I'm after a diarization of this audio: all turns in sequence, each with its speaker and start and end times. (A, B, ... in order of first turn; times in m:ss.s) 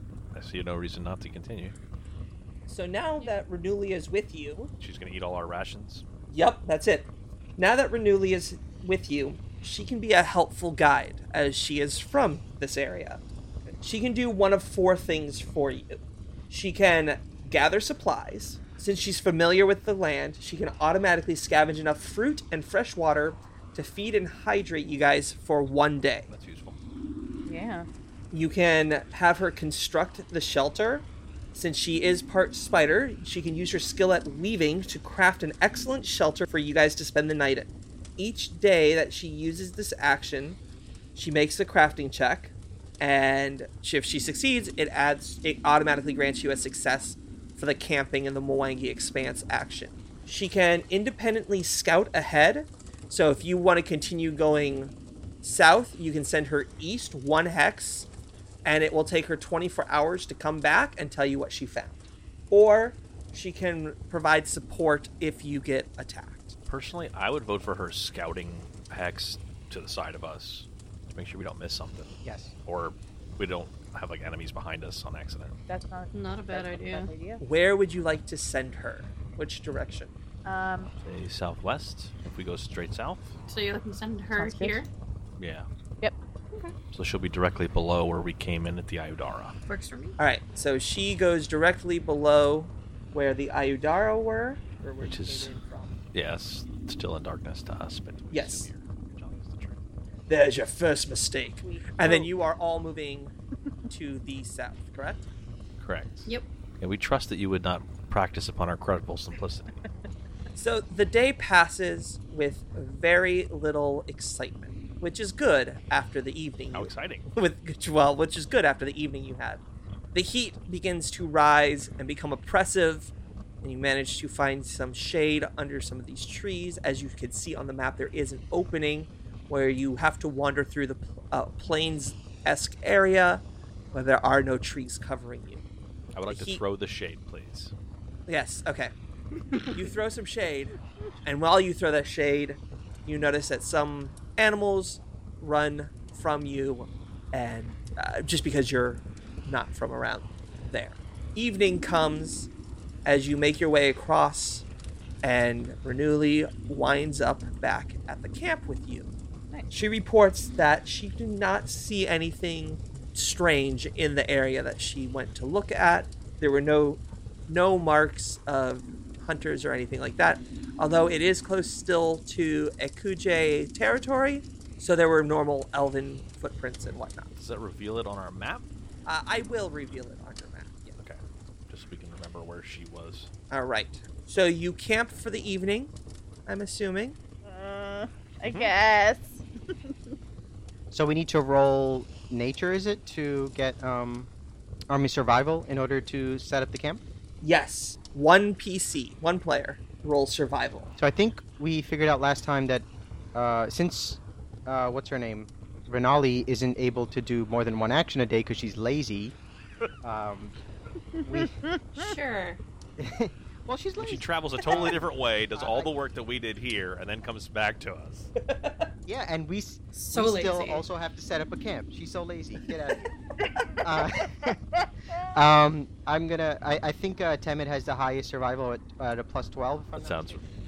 0:00.3-0:01.7 A
0:02.7-0:04.7 B
0:04.8-0:06.0 A
0:06.3-0:13.2 B
0:13.8-0:16.0 B
0:16.5-0:26.3 B
0:26.3-0:26.8 A
0:27.4-0:27.9 C
0:28.3-0:40.6 B
0:41.1-0:58.1 B
0:58.6-1:06.6 B
1:06.6-1:15.6 A
1:12.2-1:12.5 D
1:15.7-1:17.4 C
1:16.1-1:17.1 E
1:17.4-1:20.1 B
1:20.4-1:20.9 C
1:21.0-1:23.4 A
1:23.4-1:24.9 E
1:24.3-1:24.8 C
1:25.4-1:25.7 A
1:26.9-1:29.6 A
1:29.6-1:30.2 E
1:30.2-1:36.0 B
1:35.0-1:35.5 A
1:36.1-1:39.8 A
1:38.3-1:38.7 B
1:40.3-1:43.3 B
1:41.6-1:42.3 C
1:43.9-1:45.3 B
1:45.8-1:49.7 A
1:50.5-1:59.6 B
1:56.7-1:57.3 A
2:00.1-2:15.6 B
2:16.1-2:17.7 A
2:16.2-2:16.6 B
2:18.3-2:18.9 B
2:19.7-2:32.5 B
2:33.0-2:34.6 B
2:35.2-2:39.1 B
2:39.7-2:57.3 B
2:57.4-2:58.7 A
2:59.0-3:01.0 B
3:01.0-3:03.3 A
3:03.5-3:05.9 B
3:06.5-3:07.2 B
3:07.4-3:10.1 C
3:08.5-3:08.7 A
3:10.9-3:14.3 D
3:14.9-3:17.0 D
3:17.4-3:20.9 B
3:21.0-3:29.3 D
3:30.0-3:30.5 D
3:31.2-3:32.1 C
3:31.2-3:31.6 D
3:31.9-3:32.6 E
3:33.0-3:35.0 D
3:34.0-3:38.3 A
3:38.5-3:38.8 B
3:39.0-3:43.1 D
3:39.9-3:40.8 E
3:43.8-3:44.6 D
3:45.3-3:50.4 D
3:49.9-3:50.5 A